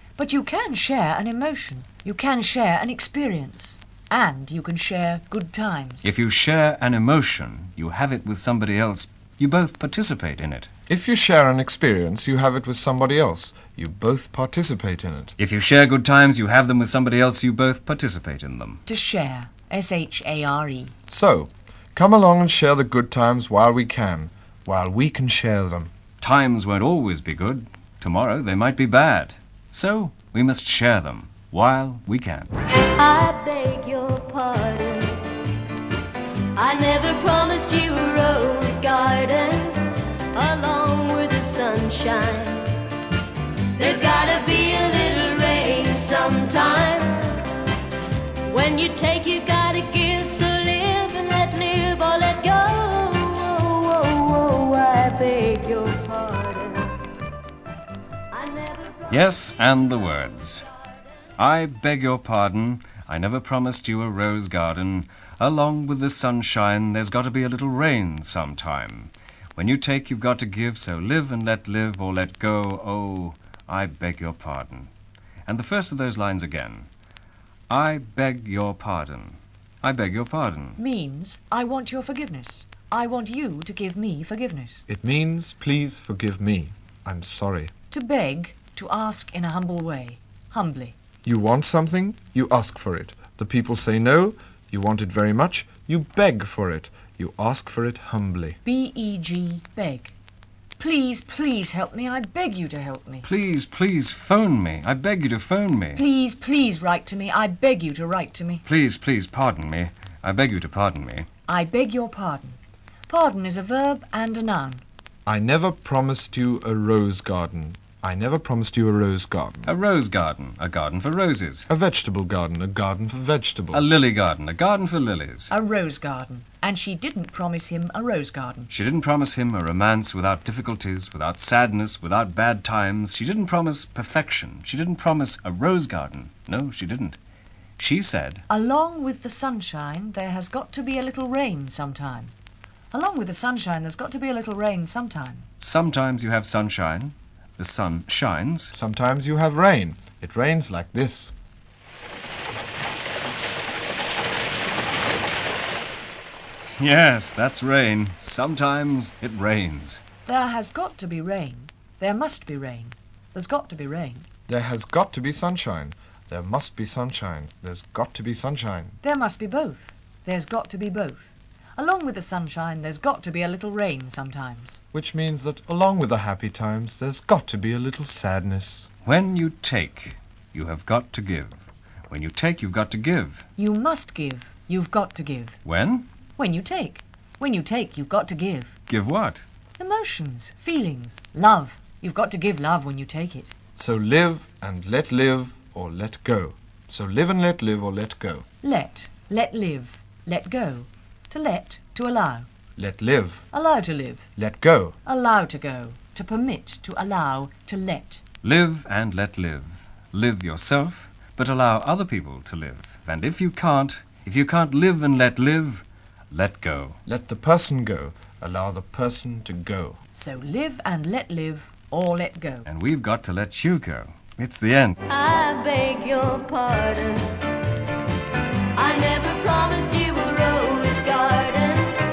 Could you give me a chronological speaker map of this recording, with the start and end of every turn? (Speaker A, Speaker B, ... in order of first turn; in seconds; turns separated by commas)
Speaker A: 0.2-6.0, Speaker B: 6.0-10.7, Speaker C: 10.9-15.3, Speaker B: 15.4-18.8, Speaker A: 18.9-20.9, Speaker C: 21.1-25.9, Speaker B: 26.2-32.5, Speaker D: 33.0-35.2, Speaker D: 36.5-39.8, Speaker D: 40.3-42.7, Speaker D: 43.8-47.2, Speaker D: 48.5-56.9, Speaker D: 58.3-59.3, Speaker B: 59.1-60.6, Speaker B: 61.4-74.9, Speaker B: 75.5-76.9, Speaker B: 77.7-80.8, Speaker A: 80.8-84.8, Speaker C: 84.9-87.7, Speaker A: 87.9-90.9, Speaker C: 91.2-98.6, Speaker A: 98.6-100.1, Speaker A: 100.8-103.2, Speaker B: 103.2-106.0, Speaker A: 106.0-108.6, Speaker B: 108.6-111.3, Speaker A: 111.5-112.6, Speaker A: 113.1-114.8, Speaker C: 115.2-119.7, Speaker B: 119.7-121.7, Speaker C: 121.7-124.0, Speaker B: 123.7-125.5, Speaker A: 125.5-128.7, Speaker B: 128.7-137.2, Speaker B: 137.8-138.4, Speaker A: 138.5-142.3, Speaker A: 142.9-145.5, Speaker B: 145.6-148.7, Speaker C: 148.7-151.3, Speaker B: 156.8-160.0, Speaker A: 160.2-164.2, Speaker C: 164.5-169.0, Speaker A: 169.0-174.8, Speaker C: 174.9-178.9, Speaker B: 179.0-181.6, Speaker B: 182.1-183.4, Speaker A: 183.6-185.6, Speaker B: 185.6-186.1, Speaker A: 186.4-188.7, Speaker B: 188.9-189.4, Speaker A: 189.8-193.5, Speaker C: 193.8-198.4, Speaker A: 198.6-202.5, Speaker C: 202.8-203.4, Speaker A: 203.5-204.3, Speaker C: 204.3-205.0, Speaker A: 205.0-208.2, Speaker B: 208.4-217.0, Speaker C: 217.1-220.0, Speaker A: 220.1-222.7, Speaker B: 222.7-225.0, Speaker D: 225.1-227.3, Speaker D: 228.8-231.9